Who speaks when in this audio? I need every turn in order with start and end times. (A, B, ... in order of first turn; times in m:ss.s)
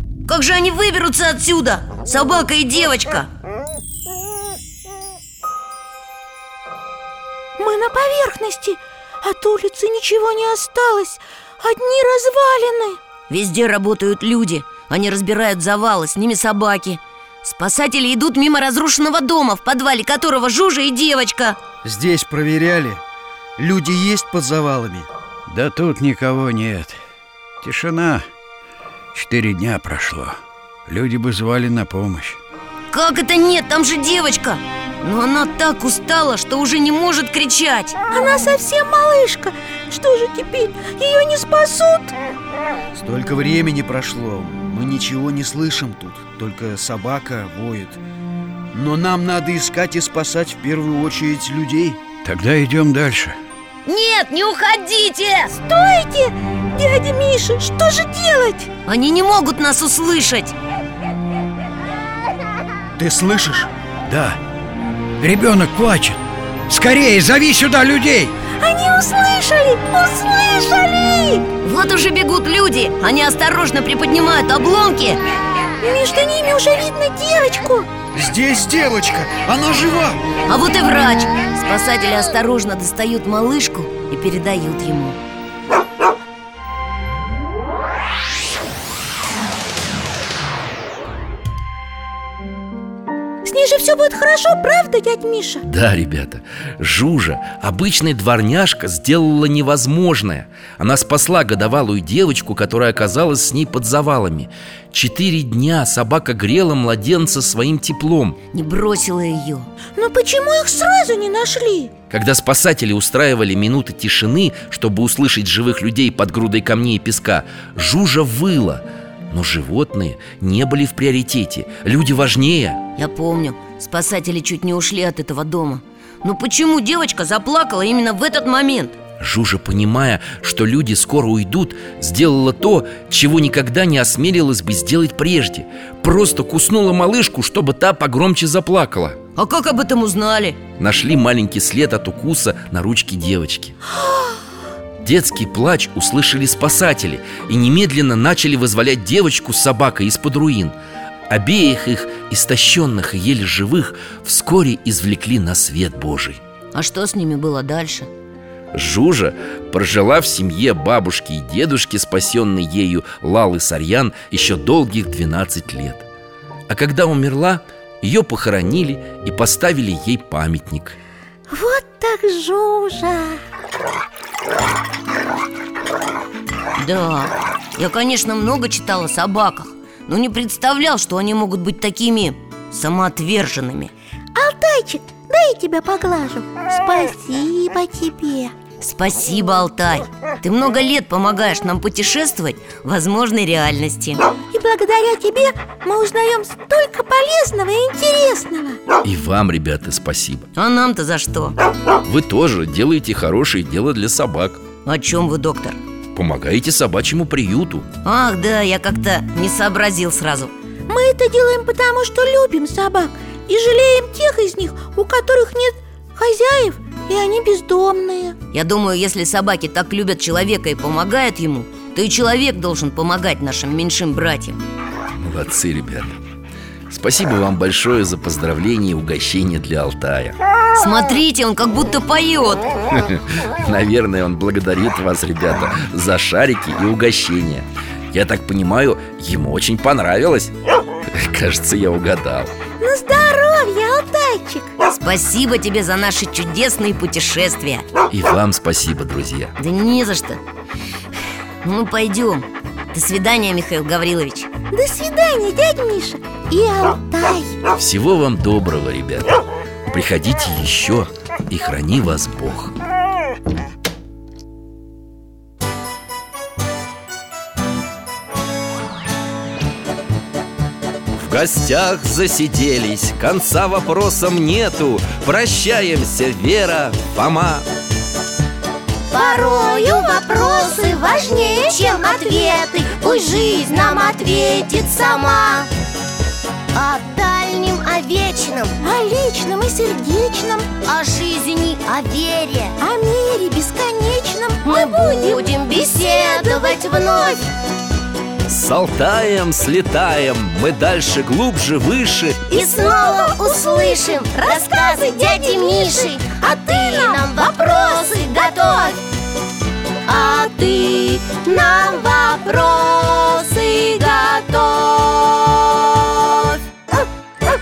0:00.3-0:03.3 A
0:07.6-0:13.0 B
0:13.3-0:21.6 A
0:21.8-0:23.0 C
0:23.6-0:25.1 C
0:25.5-0:27.0 D
0:27.6-0:28.2 D
0:29.1-0:32.4 D
0:32.9-0:38.0 A
0:38.1-0:42.1 B
0:43.0-0:48.0 C
0:48.7-0:52.0 C
0:52.2-0:53.4 D
0:53.9-0:55.6 A
0:55.7-0:58.7 B
0:58.9-1:00.5 A
1:03.0-1:03.7 C
1:04.1-1:04.4 D
1:05.2-1:08.3 D
1:08.6-1:11.5 B
1:11.6-1:15.2 A
1:15.8-1:17.9 B
1:18.1-1:20.2 C
1:20.5-1:25.2 A
1:33.4-1:35.6 B
1:35.6-1:48.4 E
1:48.5-1:49.7 A
1:50.0-1:51.9 B
1:52.1-2:02.8 E
2:03.0-2:09.0 A
2:09.2-2:19.2 E
2:19.4-2:20.6 A
2:20.8-2:23.8 E
2:25.0-2:30.8 E
2:31.3-2:36.4 E
2:36.7-2:38.1 A
2:38.7-2:46.1 E
2:46.7-2:51.0 E
2:51.5-2:53.4 B
2:56.8-3:03.9 A
3:04.4-3:08.6 B
3:08.8-3:14.3 A
3:14.5-3:18.8 B
3:19.0-3:20.5 E
3:20.6-3:21.6 A
3:22.0-3:24.6 E
3:24.9-3:25.8 A
3:26.2-3:27.9 E
3:28.0-3:30.5 A
3:30.9-3:38.4 B
3:38.5-3:44.6 A
3:45.2-3:46.2 E
3:46.9-3:50.4 E
3:50.8-3:52.7 A
3:52.9-4:00.5 E
4:01.1-4:02.5 E
4:02.8-4:04.8 B
4:04.9-4:07.9 A
4:08.1-4:09.5 E
4:09.6-4:10.4 A
4:11.6-4:14.5 A
4:14.7-4:17.6 B
4:17.7-4:22.8 E
4:31.1-4:37.7 E
4:39.1-4:45.7 F
4:46.7-4:48.8 F
4:48.8-4:50.7 B
4:50.8-4:52.8 F
4:52.8-4:55.5 B
4:54.6-4:57.5 F
4:58.5-5:02.4 E
5:02.5-5:09.0 F
5:02.5-5:03.3 B
5:04.4-5:06.0 B
5:06.7-5:07.7 B
5:10.1-5:16.6 F